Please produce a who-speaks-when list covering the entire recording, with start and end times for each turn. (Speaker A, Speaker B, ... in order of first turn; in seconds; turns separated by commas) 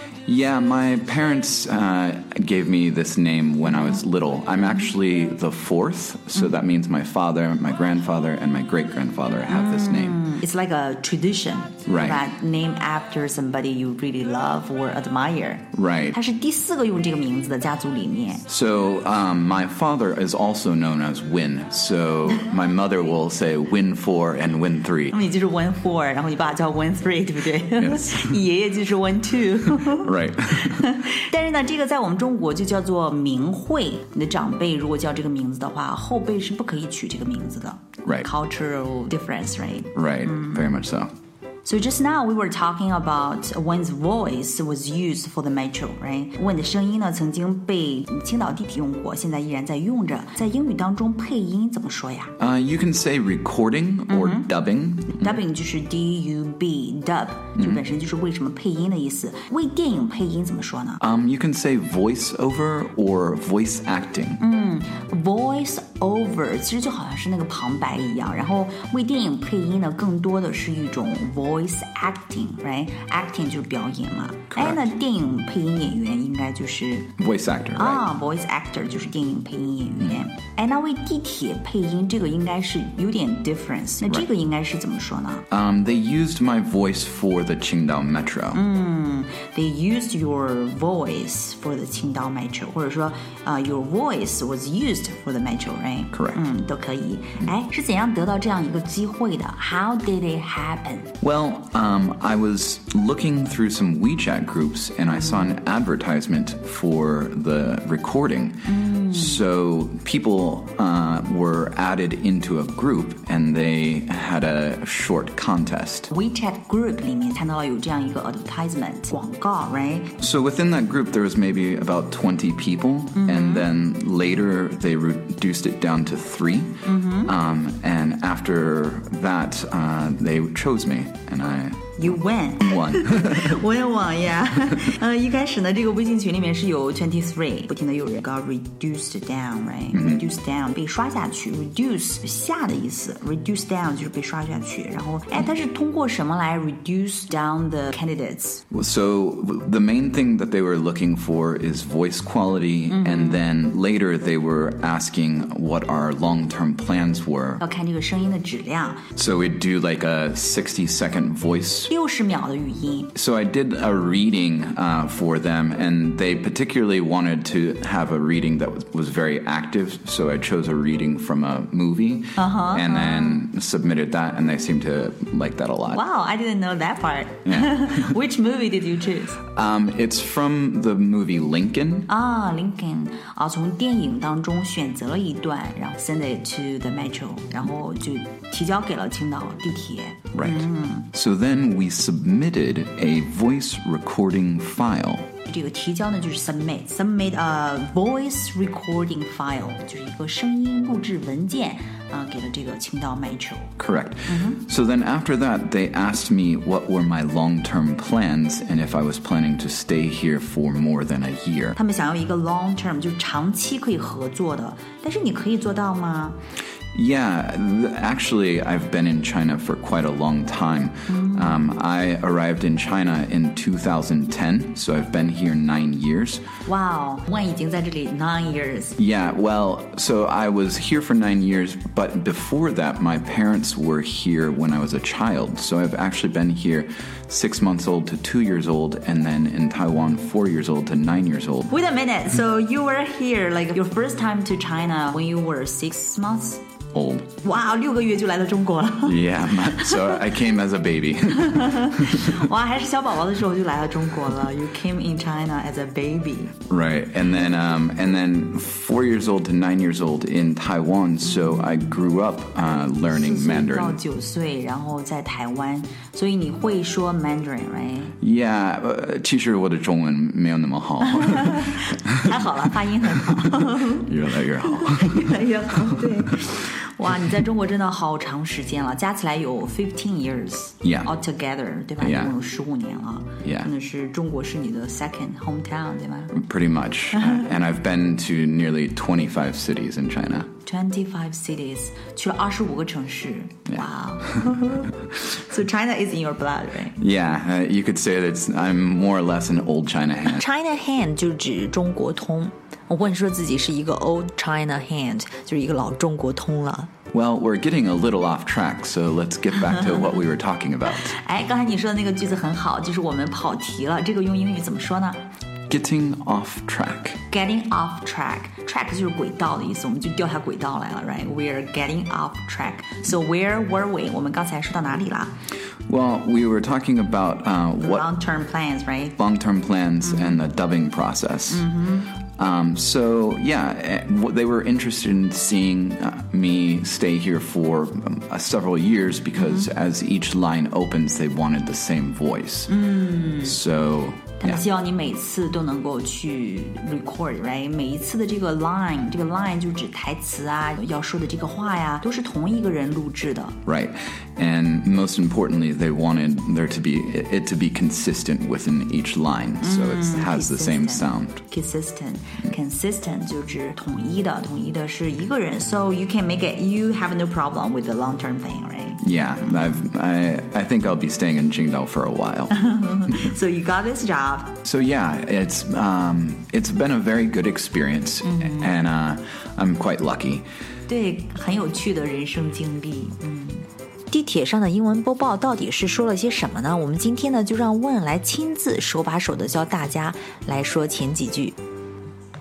Speaker A: 0.2-10.2, Speaker B: 9.5-18.4, Speaker A: 11.8-12.2, Speaker A: 15.7-16.2, Speaker A: 18.5-25.1, Speaker B: 25.1-40.7, Speaker A: 27.8-28.4, Speaker A: 29.7-30.9, Speaker A: 39.9-41.1, Speaker B: 41.6-52.3, Speaker A: 52.4-55.4, Speaker B: 54.1-54.5, Speaker B: 55.1-61.0, Speaker A: 57.6-57.8, Speaker A: 61.0-64.4, Speaker B: 64.4-77.1, Speaker A: 74.5-74.9, Speaker A: 77.2-78.0, Speaker B: 77.8-85.4, Speaker A: 84.0-84.3, Speaker A: 85.5-88.6, Speaker B: 88.5-101.1, Speaker A: 96.1-96.4, Speaker A: 101.2-116.1, Speaker B: 108.6-109.5, Speaker B: 116.1-120.1, Speaker A: 120.2-133.6, Speaker B: 123.2-123.7, Speaker B: 126.8-127.3, Speaker B: 132.0-148.6, Speaker A: 139.9-140.2, Speaker A: 148.7-157.6, Speaker B: 152.9-153.4, Speaker B: 157.6-159.0, Speaker A: 159.2-161.9, Speaker B: 161.9-163.1, Speaker A: 163.1-176.0, Speaker B: 172.4-173.4, Speaker B: 175.9-179.4, Speaker A: 177.4-178.1, Speaker A: 179.5-182.1, Speaker B: 182.1-191.1, Speaker A: 190.3-195.3, Speaker B: 195.4-203.7, Speaker A: 203.8-211.8, Speaker B: 204.3-204.6, Speaker B: 211.8-216.4, Speaker A: 216.9-226.4, Speaker B: 221.1-221.6, Speaker B: 226.6-228.9, Speaker A: 229.0-241.7, Speaker B: 241.7-246.6, Speaker A: 246.9-247.3, Speaker B: 247.4-250.1, Speaker A: 249.0-252.4, Speaker B: 251.3-256.6, Speaker A: 256.7-264.0, Speaker B: 261.3-261.9, Speaker B: 263.0-268.1, Speaker A: 268.2-272.7, Speaker B: 271.0-286.3, Speaker A: 273.2-276.1, Speaker A: 280.8-281.1, Speaker A: 282.0-282.3, Speaker A: 283.4-283.7, Speaker A: 286.3-290.5, Speaker B: 287.1-287.5, Speaker B: 290.6-297.0, Speaker A: 297.0-300.4, Speaker B: 300.3-306.9, Speaker A: 307.1-311.1, Speaker B: 311.0-315.2, Speaker A: 315.7-317.2, Speaker B: 317.3-325.3, Speaker A: 325.9-328.1, Speaker B: 327.8-329.2, Speaker A: 329.2-331.7, Speaker B: 330.1-330.4, Speaker B: 331.5-332.1, Speaker A: 332.4-342.9, Speaker B: 339.4-339.7, Speaker B: 342.7-343.6, Speaker A: 343.4-344.6, Speaker B: 344.4-353.6, Speaker A: 353.6-361.4, Speaker B: 359.6-369.0, Speaker A: 369.0-372.5, Speaker B: 372.5-374.6, Speaker A: 374.6-380.4, Speaker B: 378.2-378.7, Speaker B: 380.9-391.6